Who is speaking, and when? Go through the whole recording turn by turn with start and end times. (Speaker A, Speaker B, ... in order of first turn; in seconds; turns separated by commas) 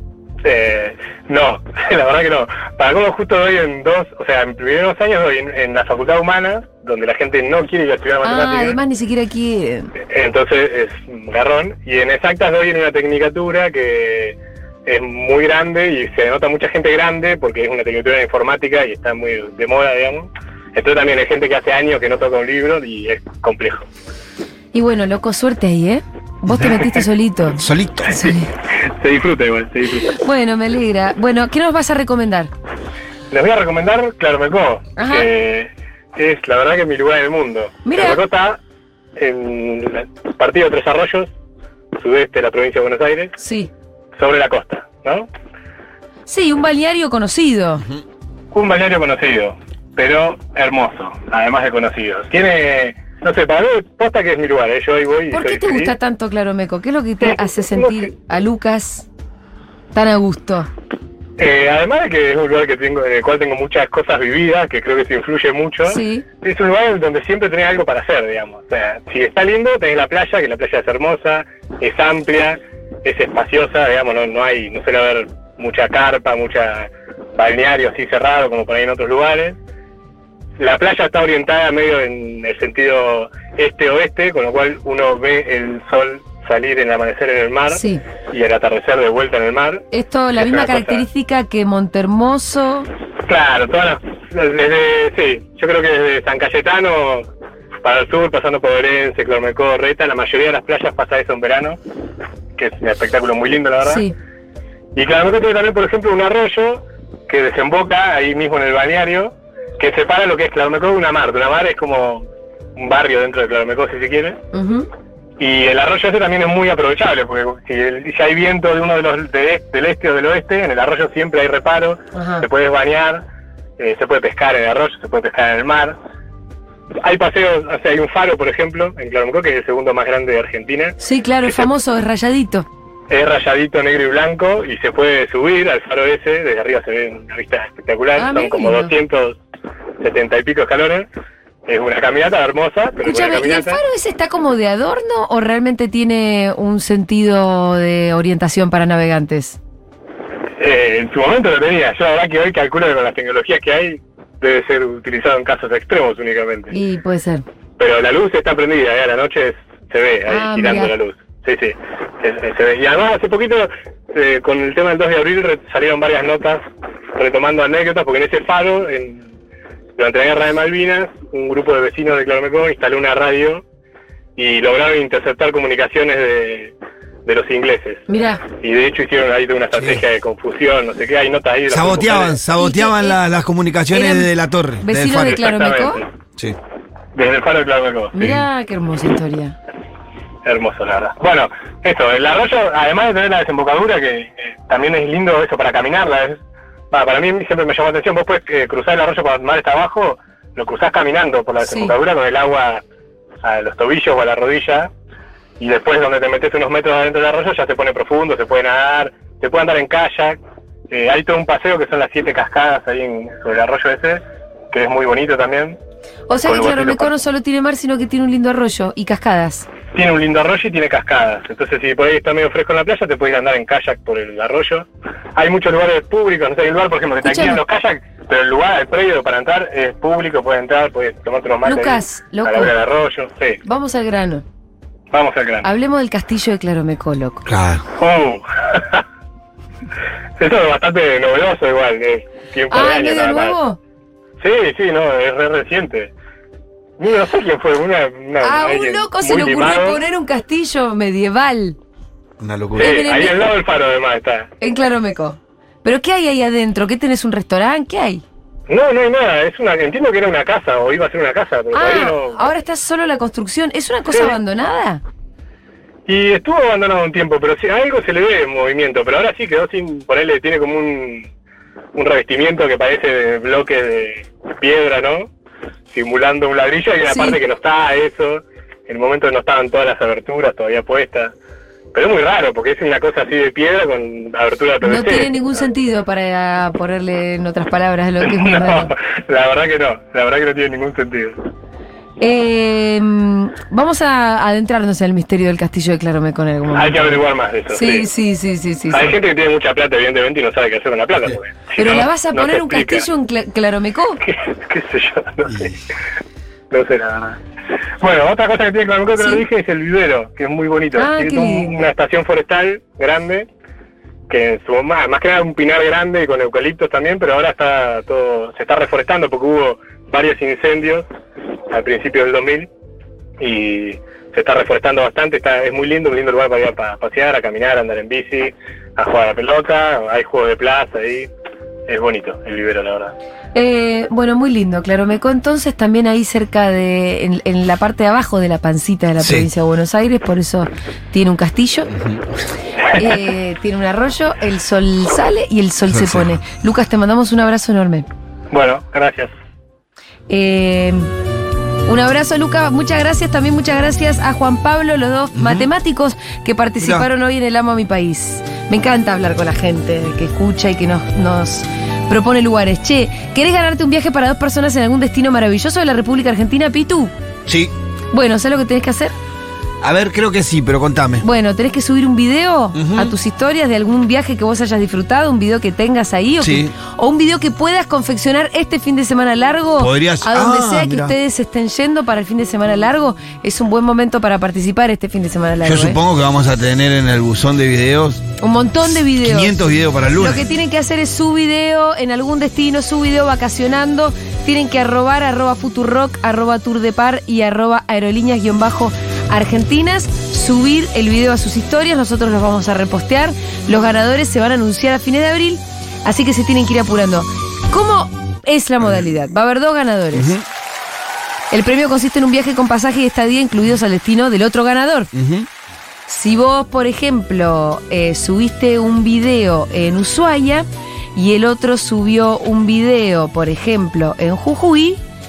Speaker A: 0.4-8.8, Speaker B: 8.2-9.9, Speaker A: 10.1-23.9, Speaker B: 24.7-27.6, Speaker C: 27.6-28.2, Speaker B: 28.1-28.5, Speaker A: 29.0-30.2, Speaker B: 30.1-32.5, Speaker A: 33.3-38.6, Speaker B: 35.0-35.3, Speaker B: 37.9-38.2, Speaker A: 39.2-41.3, Speaker A: 41.9-43.4, Speaker B: 43.4-43.7, Speaker A: 44.2-45.3, Speaker B: 46.3-47.8, Speaker A: 48.5-55.9, Speaker B: 55.3-59.0, Speaker A: 57.2-58.1, Speaker B: 59.9-60.7, Speaker A: 61.4-79.6, Speaker B: 65.9-66.2, Speaker A: 80.6-91.0, Speaker B: 87.7-88.0, Speaker B: 89.9-92.9, Speaker A: 93.3-97.3, Speaker A: 97.8-101.8, Speaker A: 102.5-104.0, Speaker B: 103.8-104.1, Speaker A: 104.9-112.2, Speaker A: 112.8-114.4, Speaker B: 114.5-114.9, Speaker A: 115.4-123.2, Speaker B: 122.1-122.4, Speaker A: 123.8-126.0, Speaker A: 127.0-131.0, Speaker B: 131.0-132.7, Speaker A: 133.1-139.4, Speaker B: 138.2-138.9, Speaker A: 140.0-141.1, Speaker A: 141.7-143.8, Speaker B: 143.0-149.6, Speaker A: 150.6-156.7, Speaker B: 156.7-157.4, Speaker A: 157.8-166.6, Speaker B: 160.3-160.9, Speaker A: 167.2-169.3, Speaker A: 170.0-173.6, Speaker A: 174.3-176.7, Speaker A: 177.2-182.4, Speaker B: 178.1-178.4, Speaker C: 179.7-180.0, Speaker C: 181.7-185.3, Speaker B: 182.6-183.2, Speaker B: 183.9-184.3, Speaker B: 184.8-186.0, Speaker A: 185.1-186.1, Speaker A: 187.1-188.3, Speaker B: 188.1-189.6, Speaker A: 190.4-196.4, Speaker A: 196.9-202.8, Speaker B: 201.6-201.9, Speaker A: 203.4-204.9, Speaker A: 205.6-210.4, Speaker A: 210.9-215.8, Speaker B: 216.3-219.7, Speaker A: 216.4-217.1, Speaker A: 219.9-233.6, Speaker B: 227.2-227.6, Speaker B: 231.6-232.7, Speaker B: 233.6-234.4, Speaker A: 235.1-235.7, Speaker B: 235.6-237.4, Speaker C: 237.4-237.8, Speaker A: 238.0-239.0, Speaker A: 240.4-243.6, Speaker B: 242.7-243.8, Speaker A: 244.4-246.1, Speaker A: 247.0-250.0, Speaker B: 248.4-251.8, Speaker C: 252.4-252.9, Speaker B: 252.8-253.5, Speaker A: 252.8-254.5, Speaker B: 254.6-258.2, Speaker A: 258.7-262.5, Speaker B: 261.7-265.0, Speaker A: 266.1-271.3, Speaker A: 271.9-275.3, Speaker A: 275.9-281.3, Speaker B: 277.1-277.4, Speaker A: 281.9-285.5, Speaker B: 284.8-288.9, Speaker A: 288.2-291.4, Speaker B: 292.2-297.2, Speaker A: 296.7-298.1, Speaker B: 297.7-299.1, Speaker A: 298.9-303.1, Speaker B: 301.8-304.2, Speaker A: 304.2-305.8, Speaker A: 306.7-307.4, Speaker A: 308.0-313.5, Speaker B: 309.2-309.4, Speaker B: 310.9-311.8, Speaker A: 314.3-321.1, Speaker A: 321.7-322.7, Speaker A: 323.4-331.3, Speaker A: 331.9-333.1, Speaker B: 333.5-341.9, Speaker C: 339.2-339.5, Speaker C: 341.9-342.2, Speaker B: 342.9-348.1, Speaker C: 345.9-346.4, Speaker A: 348.5-349.3, Speaker B: 350.3-351.1, Speaker B: 351.9-367.1, Speaker C: 355.3-355.7, Speaker C: 356.8-357.1, Speaker C: 367.5-367.7, Speaker B: 368.1-369.1, Speaker C: 369.8-371.2, Speaker B: 371.2-386.0, Speaker C: 372.7-373.1, Speaker C: 376.4-376.7, Speaker C: 379.8-381.1, Speaker C: 385.6-388.2, Speaker B: 388.4-410.3, Speaker C: 389.1-390.4, Speaker C: 410.1-410.4, Speaker B: 411.5-415.1, Speaker C: 415.1-415.5, Speaker B: 416.1-425.0